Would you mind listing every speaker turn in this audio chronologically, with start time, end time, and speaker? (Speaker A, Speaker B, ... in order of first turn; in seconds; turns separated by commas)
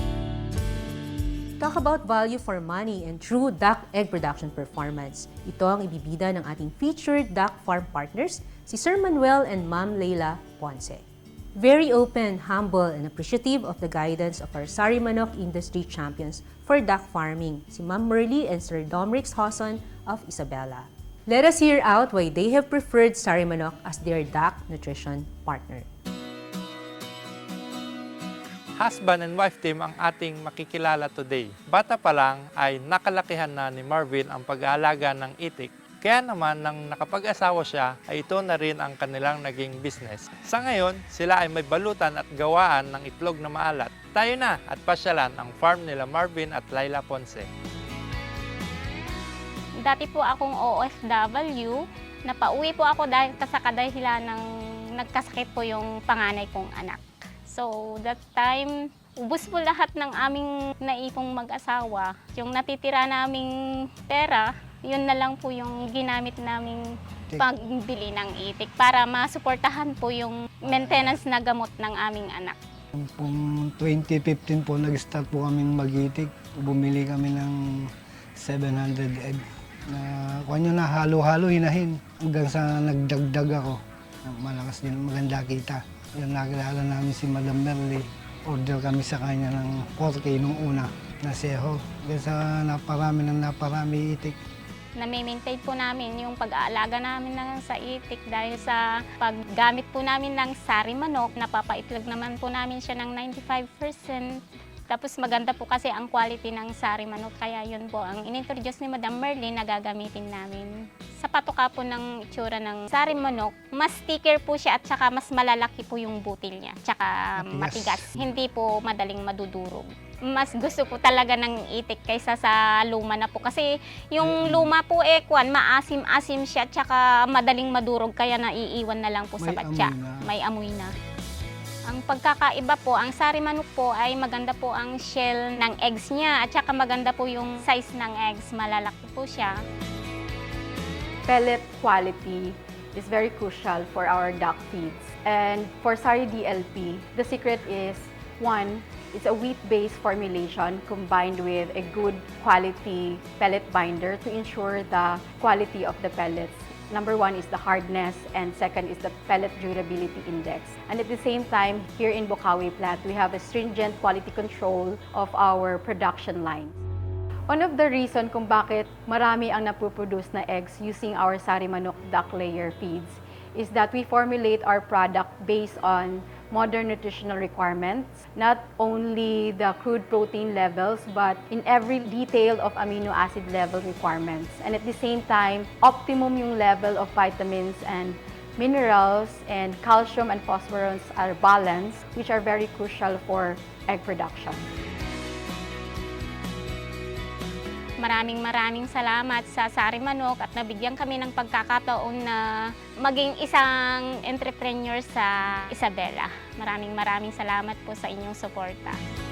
Speaker A: 1.6-11.0, Speaker A: 11.6-25.9, Speaker B: 28.8-47.5, Speaker C: 49.8-54.5, Speaker C: 55.0-63.5, Speaker C: 64.1-66.8, Speaker C: 67.4-72.6, Speaker D: 70.7-71.2, Speaker D: 73.0-77.8, Speaker D: 78.4-94.4, Speaker C: 95.0-130.9, Speaker D: 117.4-118.1, Speaker D: 124.2-124.7, Speaker D: 129.4-130.2, Speaker C: 131.9-139.6, Speaker E: 141.3-166.8, Speaker E: 167.5-194.6, Speaker C: 198.0-209.0